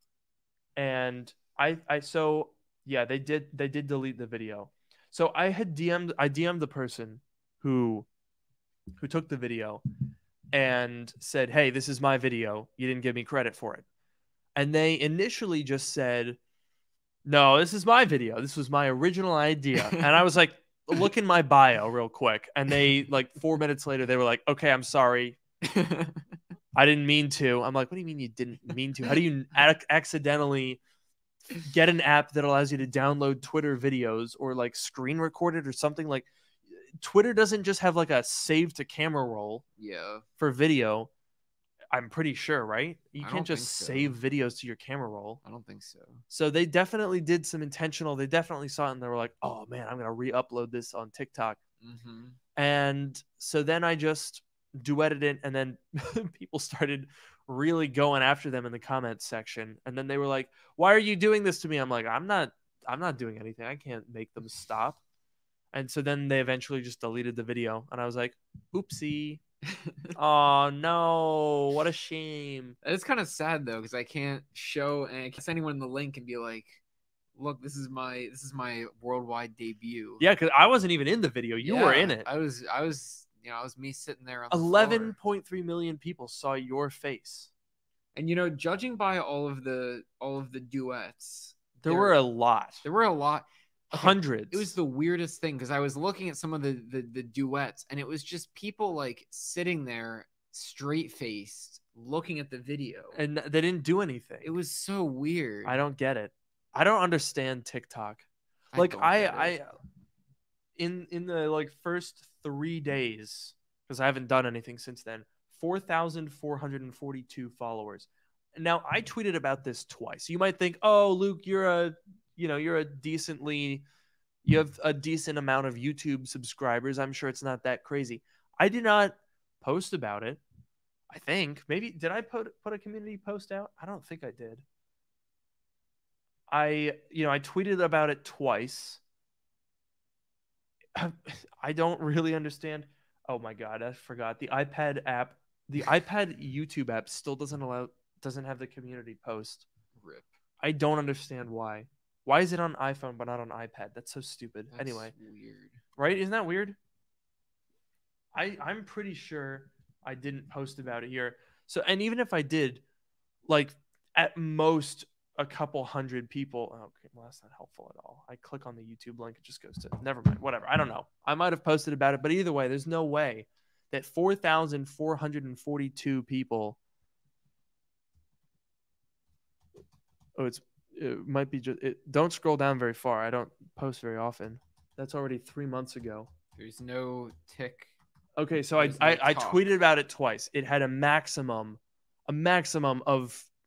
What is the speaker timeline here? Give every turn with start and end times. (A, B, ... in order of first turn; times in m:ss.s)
0:00.8-0:08.1 A
0:09.0-0:09.8 A
0:10.5-0:13.9 A
0:14.6-0:16.4 A
0:17.3-0:25.4 A
0:25.6-0:26.2 B
0:26.8-0:30.8 A
0:31.6-0:39.6 A
0:39.8-0:40.2 B
0:40.4-0:41.1 A
0:41.9-0:45.4 A
0:43.2-0:44.2 B
0:45.4-0:46.2 B
0:46.3-0:51.6 A
0:51.8-0:52.4 B
0:52.6-1:05.0 A
1:05.7-1:09.4 A
1:10.2-1:12.8 A
1:12.8-1:16.8 B
1:17.4-1:20.2 B
1:20.2-1:22.3 A
1:21.6-1:25.2 B
1:24.5-1:27.5 A
1:28.2-1:32.2 B
1:31.8-1:32.8 A
1:32.8-1:43.2 B
1:33.9-1:34.8 A
1:43.1-1:44.6 A
1:44.4-1:45.8 B
1:45.6-1:49.7 A
1:48.7-1:49.6 B
1:50.8-2:03.8 A
2:04.4-2:10.4 A
2:11.1-2:14.6 A
2:16.5-2:19.0 A
2:21.0-2:29.7 A
2:30.0-2:30.3 B
2:30.6-2:35.1 A
2:34.7-2:35.8 B
2:36.0-2:36.8 A
2:38.4-2:42.8 A
2:43.5-2:56.8 A
3:00.4-3:06.3 A
3:06.6-3:07.9 B
3:08.4-3:13.5 A
3:08.8-3:09.6 B